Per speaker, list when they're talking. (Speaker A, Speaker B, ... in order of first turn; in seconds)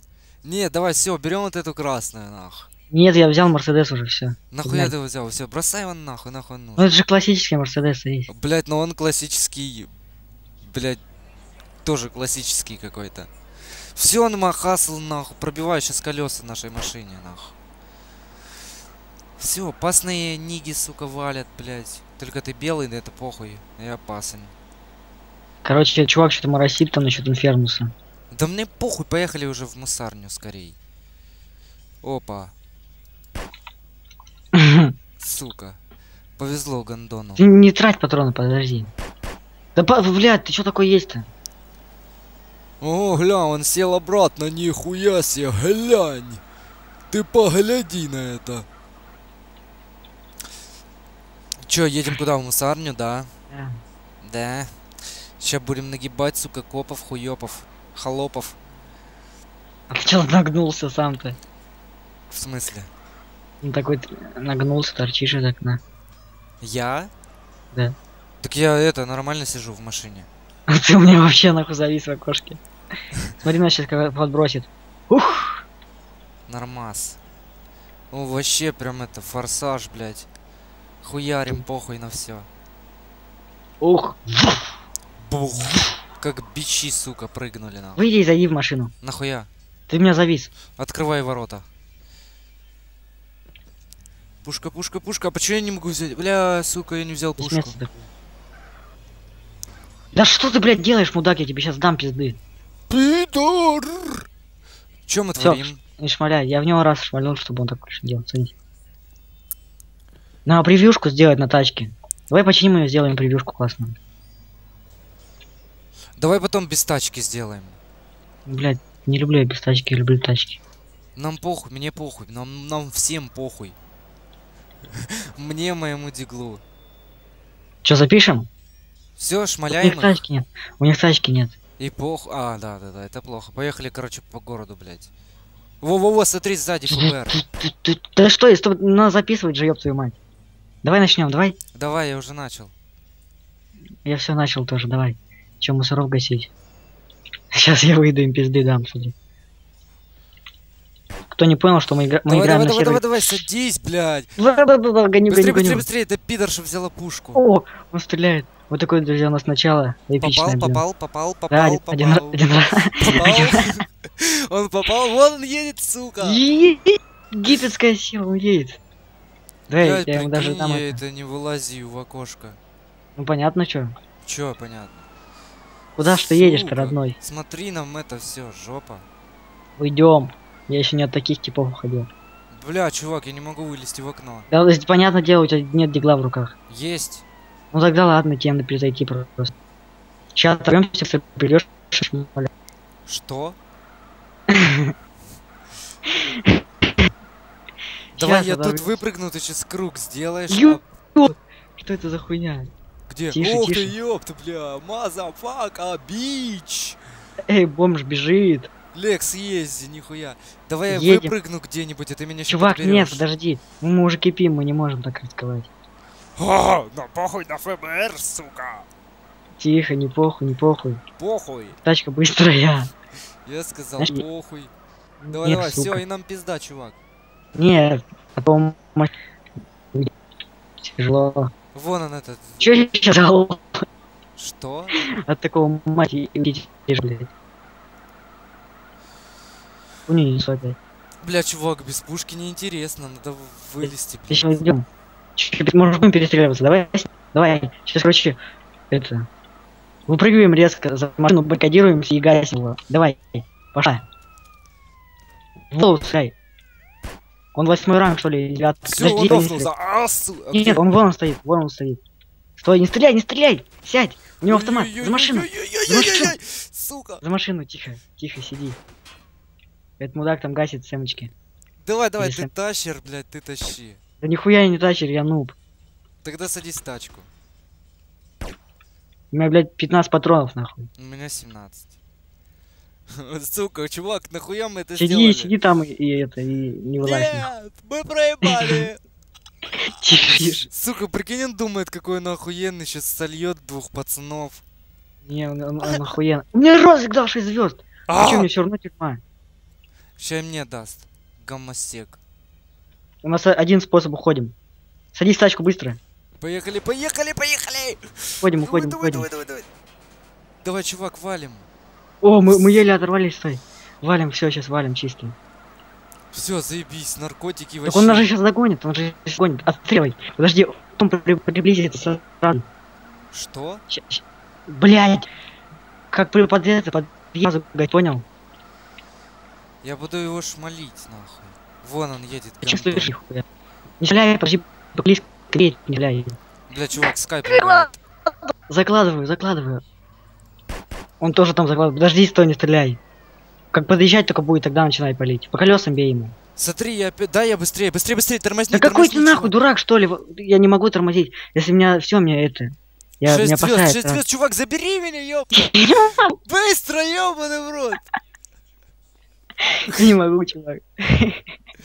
Speaker A: 0.4-2.7, 4.5-6.9, 8.3-9.9, 10.6-11.0, 11.8-17.5, 19.4-24.5, 28.3-30.8, 32.0-32.5, 35.2-35.8, 36.4-37.4, 42.8-46.4, 47.1-48.7, 51.6-53.3, 54.2-58.6, 62.3-62.9, 66.6-67.1, 68.4-70.3, 76.5-77.2, 78.1-80.3, 81.0-82.5, 85.2-88.0, 89.0-89.5, 90.8-91.7, 94.4-97.7, 102.9-104.2, 105.1-105.8, 116.2-117.8, 121.2-123.8, 124.9-126.6, 129.2-130.2, 131.8-135.1, 135.8-137.4, 141.8-142.7, 152.3-154.3, 155.3-157.4, 160.2-162.4, 163.0-166.4, 169.7-172.6, 174.2-175.1, 176.0-179.1, 182.5-184.5, 186.7-187.2, 193.1-193.6, 198.2-200.8, 203.1-207.0, 208.9-213.2, 216.4-218.9, 221.2-221.8, 223.5-224.7, 225.3-227.0, 231.7-232.8, 234.4-235.0, 241.2-244.6, 258.9-260.9, 264.4-267.2, 271.8-274.0, 276.2-277.3, 281.0-281.9, 283.1-285.5, 287.0-289.0, 290.3-294.6, 298.1-298.5, 300.2-302.2, 306.4-309.7, 310.6-311.7, 316.3-318.3, 323.3-323.8, 329.8-333.1, 336.7-337.9, 346.6-349.5, 353.2-358.0
Speaker B: 2.9-4.9, 6.8-8.3, 25.6-27.9, 34.5-34.9, 37.4-38.9, 39.8-41.3, 53.5-53.8, 59.9-61.4, 63.6-65.8, 70.7-72.6, 73.4-75.6, 83.8-84.7, 88.0-88.9, 89.9-90.5, 97.4-98.0, 100.1-102.4, 105.4-108.5, 110.5-114.0, 118.5-120.6, 127.8-128.5, 129.7-131.6, 136.9-140.2, 140.8-141.6, 144.1-146.5, 147.6-149.1, 151.3-153.4, 154.4-155.9, 157.3-160.8, 161.5-163.7, 166.2-168.8, 169.7-171.0, 173.2-173.9, 176.0-177.2, 179.8-182.1, 184.5-186.5, 187.7-189.5, 190.3-192.5, 194.5-194.9, 196.1-196.6, 198.2-199.0, 200.5-202.7, 203.3-203.9, 207.5-208.7, 210.9-211.3, 212.5-215.7, 219.6-221.0, 221.8-222.9, 224.0-224.2, 225.2-226.0, 227.6-229.1, 230.8-231.5, 232.6-233.7, 235.3-237.3, 240.1-240.8, 243.8-248.4, 248.9-249.3, 250.1-254.0, 255.7-256.3, 257.5-259.7, 260.5-262.0, 262.6-266.4, 267.2-268.8, 270.0-271.3, 272.2-272.5, 274.2-275.6, 279.3-280.9, 285.0-287.5, 288.4-288.8, 289.8-290.7, 295.2-299.2, 303.2-304.5, 305.1-306.0, 308.4-309.3, 312.2-315.3, 317.8-322.6, 323.9-325.3, 326.1-328.2, 332.6-333.4, 334.0-336.4, 338.7-339.8, 341.2-343.0, 343.7-346.3, 348.7-354.2, 355.6-356.3, 359.6-361.5